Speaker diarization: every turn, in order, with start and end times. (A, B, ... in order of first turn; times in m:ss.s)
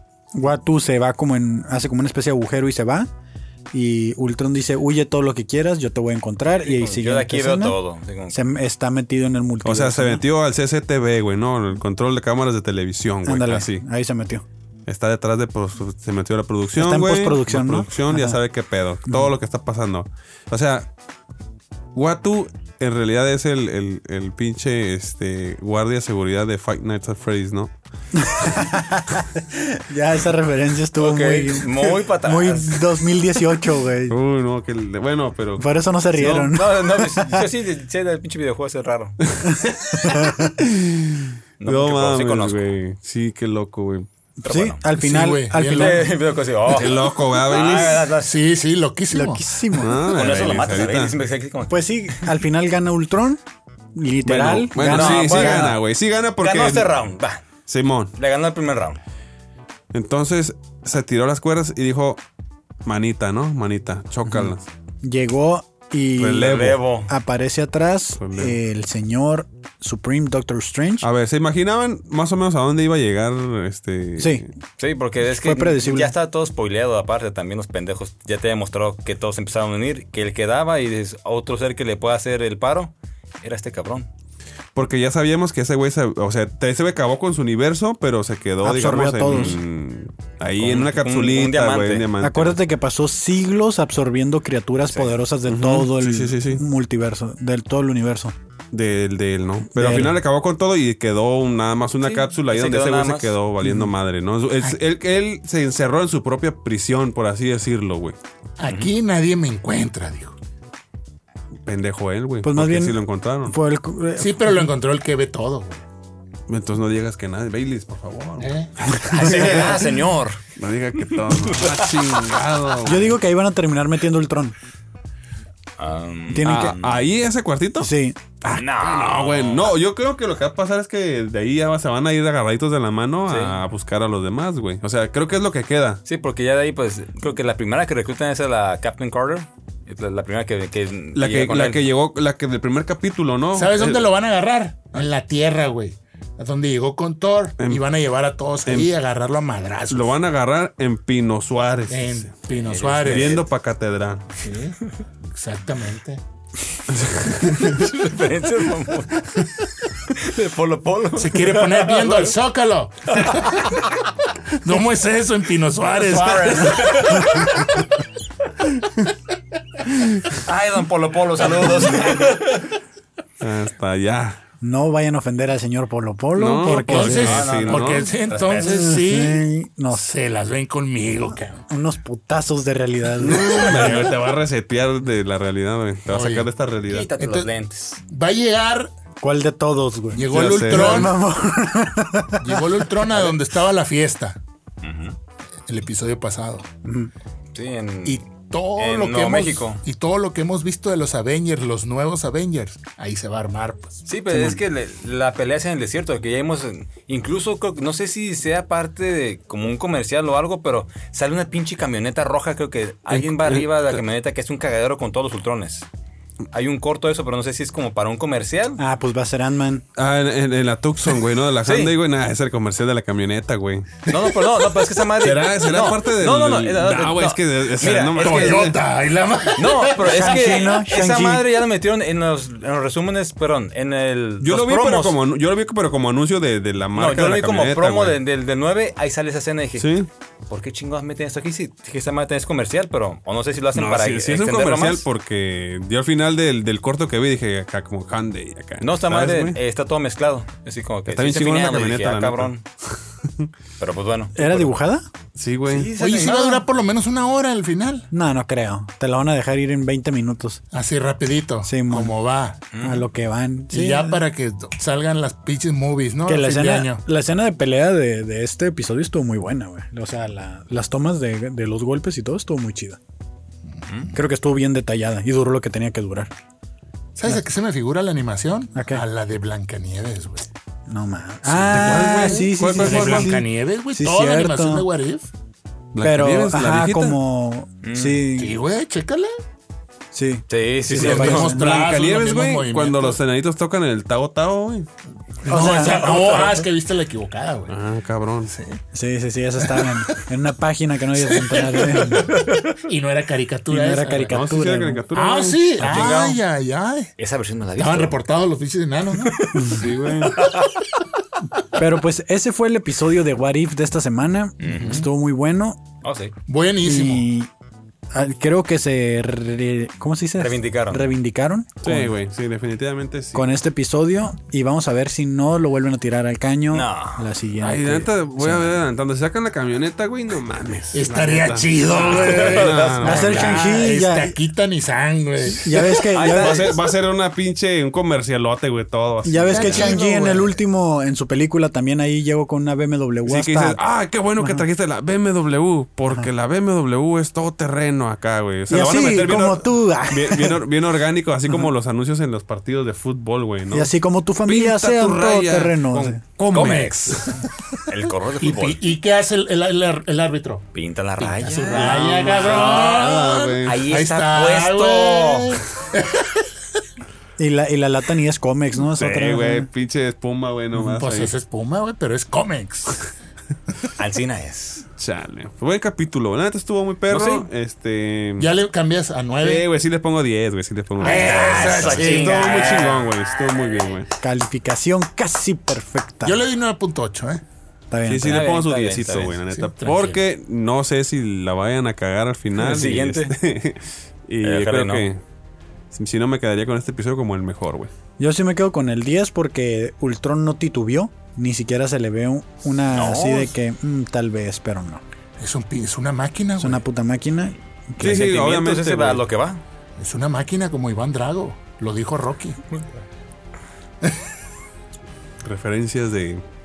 0:00.3-0:03.1 A
0:03.7-0:07.8 A
0:06.7-0:08.4 B
0:08.3-0:10.2 A
0:09.6-0:13.8 C
0:13.2-0:14.4 A
0:14.9-0:20.9 C
0:16.8-0:18.4 A
0:21.9-0:27.7 C
0:28.2-0:34.2 A
0:31.0-0:32.8 B
0:34.1-0:36.5 C
0:35.6-0:37.5 A
0:36.3-0:39.2 B
0:39.3-0:44.1 C
0:39.5-0:40.6 A
0:41.6-0:42.8 B
0:44.4-0:46.2 A
0:44.4-0:44.8 B
0:45.0-0:46.2 D
0:45.6-0:48.4 B
0:46.6-0:48.1 C
0:48.2-0:49.6 D
0:49.1-0:50.0 A
0:49.7-0:51.2 C
0:50.0-0:52.3 B
0:51.7-0:53.4 A
0:53.9-0:55.8 A
0:54.2-0:57.0 C
0:54.8-0:55.8 B
0:56.4-0:57.4 B
0:57.7-0:58.1 C
0:58.2-0:59.0 B
0:59.9-1:02.2 C
1:02.8-1:04.7 C
1:04.3-1:11.1 A
1:06.2-1:06.8 C
1:06.4-1:07.1 B
1:08.2-1:08.6 C
1:11.0-1:14.5 C
1:14.2-1:14.4 A
1:14.8-1:24.1 B
1:15.2-1:16.1 A
1:24.8-1:32.6 C
1:28.6-1:29.6 A
1:29.3-1:29.6 B
1:30.6-1:32.1 B
1:32.2-1:38.4 A
1:35.5-1:36.6 C
1:38.7-1:48.2 C
1:39.8-1:40.2 A
1:42.0-1:43.4 B
1:43.6-1:43.9 A
1:48.6-1:50.4 D
1:51.6-1:53.6 C
1:52.4-1:54.7 A
1:54.2-1:55.8 D
1:56.5-1:59.9 C
1:58.4-1:58.7 D
1:59.0-2:00.4 B
2:00.6-2:03.1 C
2:01.2-2:02.0 B
2:02.8-2:04.6 A
2:05.8-2:07.1 B
2:06.3-2:06.8 A
2:06.4-2:16.0 C
2:07.8-2:08.2 A
2:08.5-2:09.8 B
2:13.3-2:13.6 B
2:16.0-2:21.8 B
2:21.2-2:24.1 C
2:23.5-2:30.2 D
2:27.6-2:27.8 C
2:28.6-2:28.9 C
2:29.9-2:32.3 C
2:31.9-2:33.4 D
2:32.6-2:33.4 B
2:33.0-2:34.3 C
2:34.4-2:36.2 D
2:36.9-2:37.9 C
2:37.6-2:39.3 B
2:40.0-2:42.3 B
2:41.2-2:43.7 D
2:43.1-2:44.1 B
2:44.6-2:47.2 D
2:46.0-2:47.8 B
2:50.4-2:52.7 B
2:53.4-2:54.4 C
2:54.6-2:57.3 A
2:56.4-2:58.1 C
2:56.6-3:01.6 D
2:57.0-2:58.9 B
2:58.6-3:00.1 A
3:01.7-3:04.2 A
3:03.2-3:07.1 C
3:06.1-3:06.5 D
3:06.9-3:08.0 B
3:07.2-3:07.5 D
3:08.0-3:08.9 D
3:09.2-3:13.1 A
3:10.1-3:11.2 D
3:10.3-3:11.2 C
3:12.4-3:14.4 D
3:14.8-3:15.2 B
3:15.7-3:16.7 D
3:16.8-3:17.1 A
3:17.5-3:19.8 B
3:18.0-3:24.0 D
3:24.1-3:35.9 B
3:24.3-3:24.6 A
3:33.1-3:34.0 C
3:36.5-3:38.8 B
3:38.8-3:39.8 A
3:40.0-3:44.1 C
3:41.6-3:41.9 B
3:44.1-3:48.7 B
3:45.2-3:48.8 C
3:48.2-3:50.4 D
3:49.6-3:55.2 B
3:50.0-3:51.6 A
3:54.4-3:58.2 C
3:57.0-3:59.9 B
3:59.8-4:00.1 C
4:00.5-4:05.1 B
4:03.8-4:09.6 C
4:08.8-4:12.6 B
4:11.1-4:12.5 C
4:13.2-4:13.5 C
4:13.8-4:14.8 B
4:14.4-4:15.1 A
4:15.4-4:15.9 C
4:15.7-4:16.6 B
4:16.0-4:18.1 D
4:18.1-4:20.6 A
4:20.7-4:22.6 D
4:21.6-4:22.1 A
4:22.7-4:23.0 B
4:22.8-4:24.2 A
4:23.7-4:27.0 D
4:26.3-4:33.0 A
4:33.9-4:34.1 B
4:34.1-4:36.3 A
4:37.2-4:40.5 D
4:38.8-4:39.0 A
4:40.9-4:44.9 A
4:41.5-4:43.4 C
4:41.5-4:45.3 D
4:45.9-4:47.2 C
4:46.0-4:48.6 A
4:47.8-4:48.2 B
4:48.4-4:49.3 D
4:50.1-4:51.7 A
4:50.5-4:51.5 B
4:50.9-4:53.2 D
4:51.3-4:54.9 C
4:55.4-4:57.8 D
4:55.5-4:56.6 A
4:55.7-4:56.6 B
4:57.7-4:58.5 C
4:58.4-4:58.8 D
4:58.9-5:02.3 A
4:59.6-5:00.2 D
5:01.2-5:04.4 D
5:02.3-5:02.7 B
5:03.7-5:05.0 A
5:04.3-5:06.2 C
5:05.1-5:07.1 D
5:05.8-5:06.4 B
5:07.2-5:08.2 B
5:07.8-5:10.4 D
5:09.3-5:09.8 B
5:09.6-5:10.4 C
5:10.4-5:10.8 B
5:11.8-5:15.8 A
5:14.6-5:15.1 B
5:14.7-5:15.0 D
5:16.0-5:16.3 B
5:16.5-5:17.3 D
5:16.8-5:17.5 A
5:18.1-5:22.1 A
5:20.4-5:21.1 B
5:21.8-5:23.6 C
5:23.3-5:28.8 A
5:26.7-5:27.3 B
5:27.6-5:33.6 C
5:30.9-5:36.0 D
5:31.9-5:33.7 B
5:33.0-5:34.3 A
5:35.5-5:36.8 A
5:36.1-5:36.8 B
5:36.3-5:40.0 C
5:39.2-5:43.8 A
5:39.5-5:40.5 D
5:39.6-5:40.2 B
5:43.3-5:53.9 C
5:44.4-5:44.6 A
5:48.7-5:50.6 A
5:53.7-5:56.2 A
5:54.4-5:57.3 C
5:56.5-5:57.3 B
5:56.5-5:57.4 D
5:57.9-5:58.8 B
5:58.4-6:00.7 D
6:00.7-6:05.6 B
6:01.2-6:06.4 D
6:01.7-6:03.8 C
6:07.4-6:09.7 A
6:08.8-6:11.3 C
6:10.8-6:13.0 D
6:14.0-6:14.9 B
6:15.0-6:18.5 C
6:17.1-6:17.5 B
6:18.4-6:19.7 D
6:19.4-6:24.1 C
6:21.0-6:23.0 D
6:21.0-6:23.8 B
6:24.2-6:26.4 A
6:26.2-6:27.4 D
6:27.9-6:28.4 A
6:28.1-6:35.2 C
6:28.2-6:29.4 B
6:29.5-6:30.2 D
6:32.6-6:33.4 B
6:34.4-6:35.1 B
6:35.9-6:37.9 C
6:38.2-6:45.0 A
6:42.9-6:43.5 B
6:45.4-6:46.8 D
6:46.6-6:48.2 A
6:48.0-6:49.2 C
6:48.0-6:49.6 B
6:50.0-6:52.7 D
6:54.0-6:54.3 D
6:55.4-6:56.4 C